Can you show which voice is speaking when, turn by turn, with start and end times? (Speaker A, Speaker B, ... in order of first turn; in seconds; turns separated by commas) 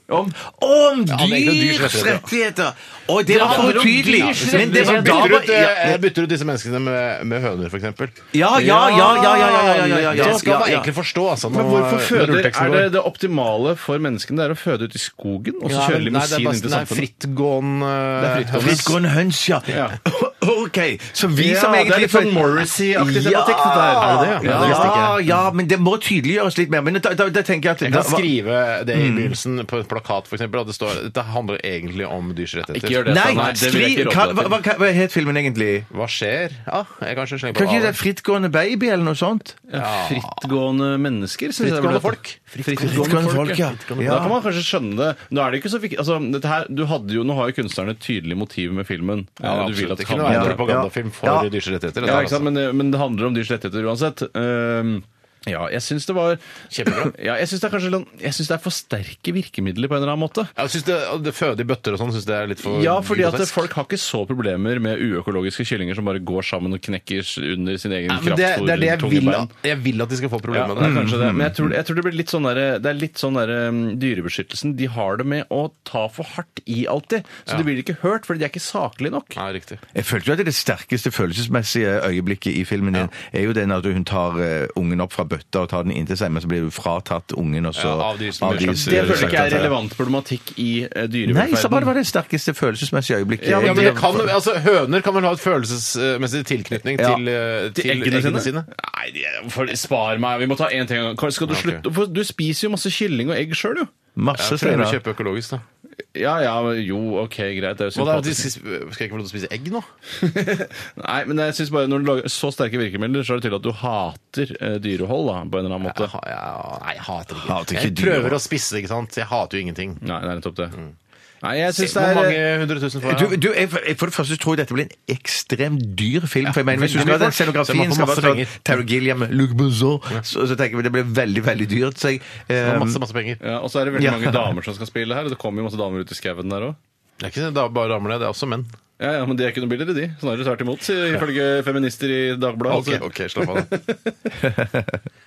Speaker A: 0.1-0.3, Speaker B: 0.3-6.0, Speaker C: 1.1-2.3, Speaker A: 3.3-5.4, Speaker C: 3.3-12.9, Speaker B: 8.3-10.9, Speaker A: 8.6-9.4, Speaker A: 10.0-10.6, Speaker A: 11.5-17.1, Speaker C: 15.7-18.9, Speaker A: 18.2-18.9, Speaker B: 18.5-28.3, Speaker A: 19.7-19.9, Speaker A: 21.4-25.1, Speaker C: 24.0-25.2, Speaker C: 27.8-33.6, Speaker B: 28.9-29.4, Speaker A: 32.7-34.5, Speaker B: 33.0-35.9, Speaker C: 35.9-38.0, Speaker B: 37.5-39.6, Speaker A: 39.7-50.6, Speaker C: 39.8-40.4, Speaker C: 41.6-44.4, Speaker B: 42.8-44.3, Speaker C: 49.4-52.5, Speaker B: 50.2-51.5, Speaker A: 52.0-60.5, Speaker C: 56.7-57.1, Speaker C: 60.6-63.7, Speaker A: 62.6-69.5, Speaker C: 68.1-71.1, Speaker A: 70.5-79.4, Speaker B: 70.8-71.7, Speaker C: 79.3-79.8, Speaker B: 79.9-89.7, Speaker C: 87.7-89.7, Speaker A: 88.5-91.9, Speaker B: 91.3-94.3, Speaker A: 93.4-94.0, Speaker C: 93.4-98.7, Speaker B: 97.0-97.2, Speaker A: 97.7-103.9, Speaker C: 101.5-101.8, Speaker B: 104.2-105.0, Speaker C: 104.3-105.6, Speaker A: 106.1-108.5, Speaker C: 107.9-109.9, Speaker A: 110.2-116.1, Speaker C: 115.8-120.0, Speaker B: 117.3-118.4, Speaker A: 120.0-120.8, Speaker A: 121.4-122.4, Speaker C: 121.7-123.3, Speaker B: 123.0-133.0, Speaker C: 126.4-128.6, Speaker C: 132.6-133.4, Speaker A: 133.4-136.8, Speaker B: 133.9-134.4, Speaker C: 137.2-138.7, Speaker A: 139.0-144.2, Speaker C: 142.7-143.7, Speaker B: 144.4-145.0